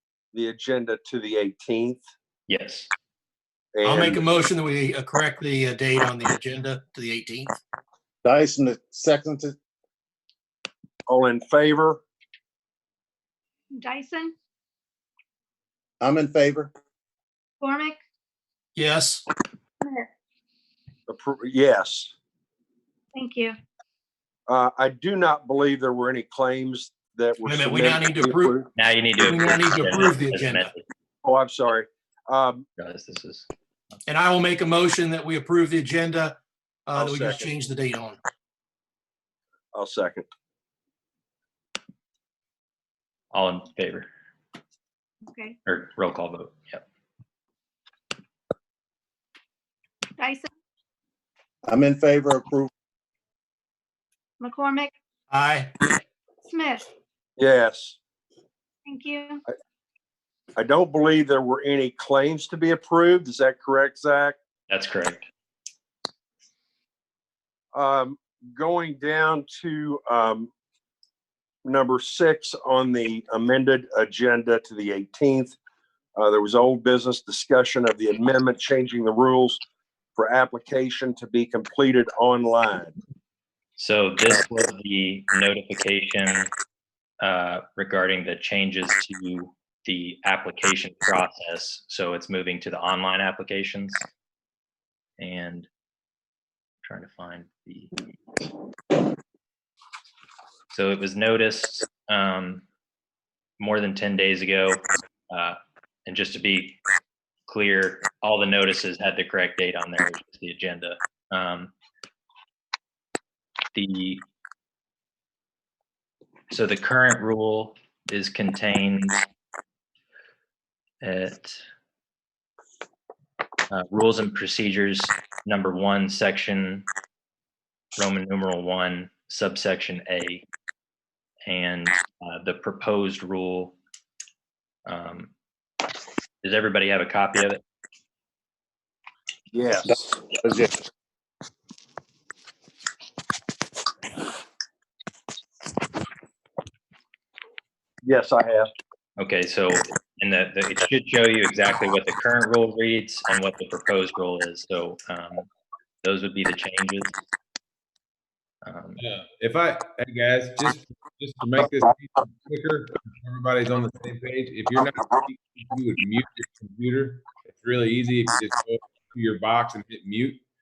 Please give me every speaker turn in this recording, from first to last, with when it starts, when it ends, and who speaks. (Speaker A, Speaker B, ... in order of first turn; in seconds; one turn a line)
Speaker A: 0.3-2.1
Speaker B: 2.5-2.9
Speaker A: 3.8-4.3
Speaker C: 3.8-7.6
Speaker D: 8.2-9.6
Speaker A: 11.1-12.0
Speaker E: 13.8-14.3
Speaker D: 16.0-16.7
Speaker E: 17.6-18.0
Speaker C: 18.8-19.2
Speaker E: 19.8-20.1
Speaker A: 21.1-22.1
Speaker E: 23.1-23.6
Speaker A: 24.5-28.7
Speaker C: 27.4-28.6
Speaker B: 28.8-30.8
Speaker C: 29.2-30.7
Speaker A: 31.2-32.7
Speaker B: 32.8-33.5
Speaker C: 34.1-38.2
Speaker A: 37.0-37.5
Speaker A: 39.7-40.3
Speaker B: 43.3-44.1
Speaker E: 45.3-45.6
Speaker B: 45.7-46.9
Speaker E: 50.2-50.5
Speaker D: 51.7-52.7
Speaker E: 54.4-54.9
Speaker C: 55.3-55.7
Speaker E: 56.4-56.9
Speaker A: 57.4-58.0
Speaker E: 58.9-59.4
Speaker A: 60.6-64.4
Speaker B: 64.7-65.2
Speaker A: 67.7-70.5
Speaker A: 71.7-75.6
Speaker A: 76.2-79.6
Speaker A: 80.2-82.9
Speaker B: 83.8-86.5
Speaker B: 87.2-94.1
Speaker B: 95.2-95.7
Speaker B: 96.8-97.9
Speaker B: 100.7-102.6
Speaker B: 103.6-106.8
Speaker B: 107.5-111.7
Speaker B: 113.8-114.2
Speaker B: 116.5-119.2
Speaker B: 121.0-121.6
Speaker B: 123.7-126.9
Speaker B: 128.0-130.4
Speaker B: 131.5-133.8
Speaker B: 134.9-135.3
Speaker B: 136.4-137.6
Speaker A: 139.5-140.2
Speaker D: 139.8-140.7
Speaker A: 148.0-148.7
Speaker B: 149.2-155.5
Speaker B: 156.0-157.2
Speaker B: 158.6-159.0
Speaker F: 159.0-170.4